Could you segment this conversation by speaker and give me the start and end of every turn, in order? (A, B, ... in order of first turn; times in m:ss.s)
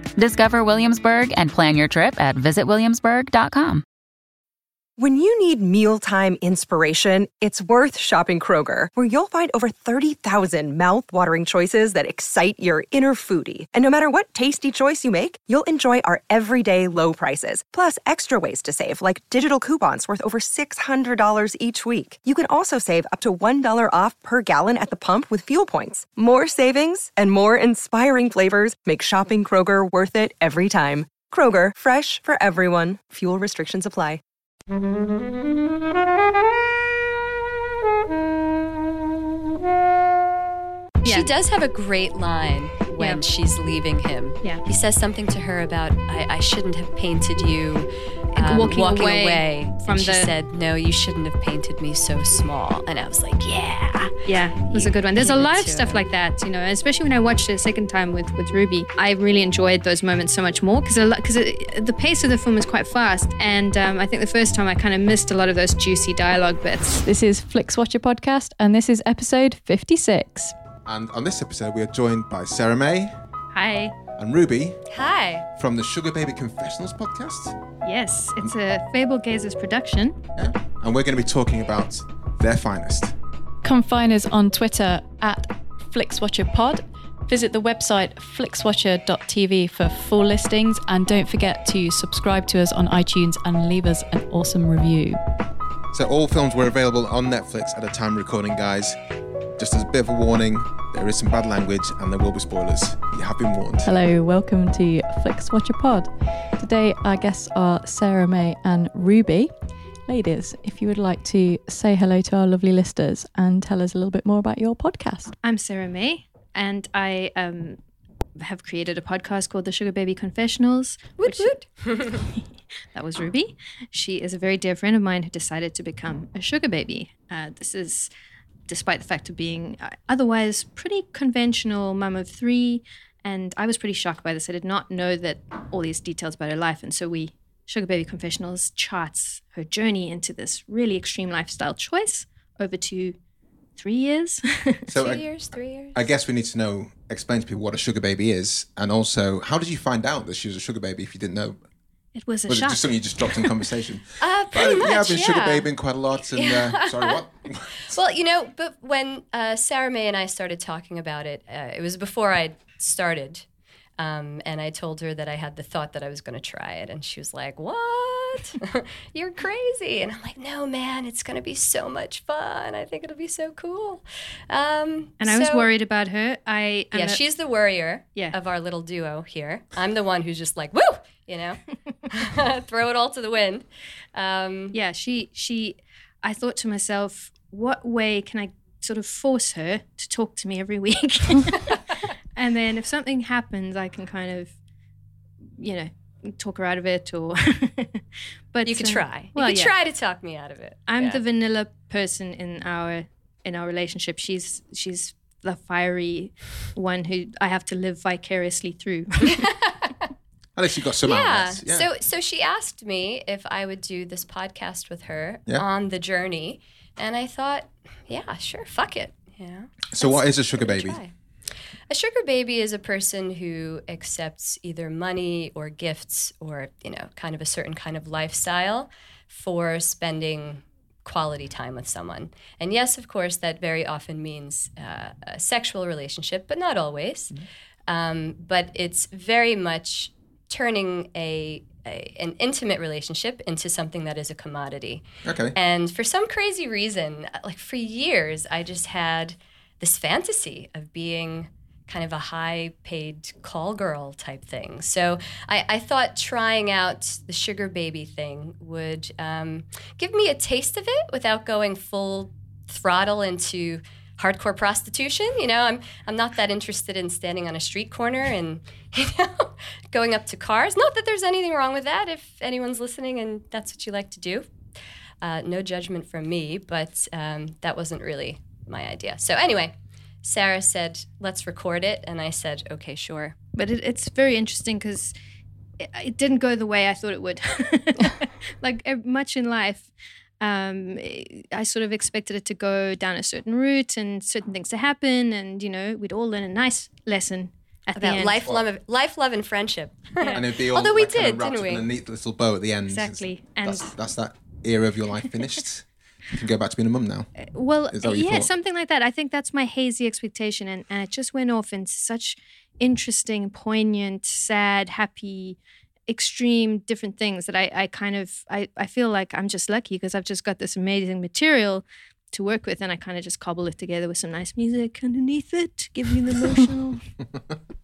0:00.2-0:03.8 A
0:05.0-0:34.2 B
0:41.0-0:41.3 C
0:41.0-0:56.0 D
0:48.3-0:50.3 C
0:54.2-1:07.0 C
1:07.0-1:10.5 E
1:10.8-1:13.1 F
1:13.5-1:13.9 C
1:14.2-1:14.8 F
1:14.9-1:15.4 D
1:15.6-1:17.6 F
1:17.8-1:20.2 C
1:20.4-1:23.1 F
1:23.6-1:35.2 E
1:35.9-1:39.0 F
1:39.6-1:43.9 F
1:43.8-1:49.5 E
1:50.1-1:55.3 E
1:55.4-1:57.8 C
1:58.4-2:01.5 C
2:01.2-2:02.2 D
2:02.9-2:08.1 C
2:08.7-2:23.2 C
2:23.8-2:24.9 C
2:24.9-2:25.2 F
2:24.9-2:26.0 D
2:25.9-2:31.6 F
2:32.1-2:32.9 C
2:32.5-2:37.8 F
2:34.2-2:35.7 D
2:36.3-2:37.2 D
2:37.8-2:43.4 D
2:44.0-2:55.7 D
2:55.2-2:57.2 C
2:56.9-3:04.8 D
3:04.7-3:11.8 C
3:12.3-3:14.5 C
3:15.6-3:19.7 C
3:18.6-3:21.2 D
3:20.9-3:29.5 C
3:29.4-3:29.9 D
3:30.6-3:31.9 F
3:31.0-3:41.1 D
3:39.9-3:41.0 F
3:41.9-3:57.3 D
3:57.9-4:34.5 D
4:05.2-4:05.5 F
4:35.2-4:43.3 D
4:43.6-4:45.1 C
4:45.8-4:49.9 C
4:50.4-4:58.4 C
4:57.9-5:01.9 D
5:00.2-5:00.5 C
5:00.3-5:07.3 F
5:02.9-5:03.9 C
5:07.4-5:27.0 C
5:07.9-5:08.5 F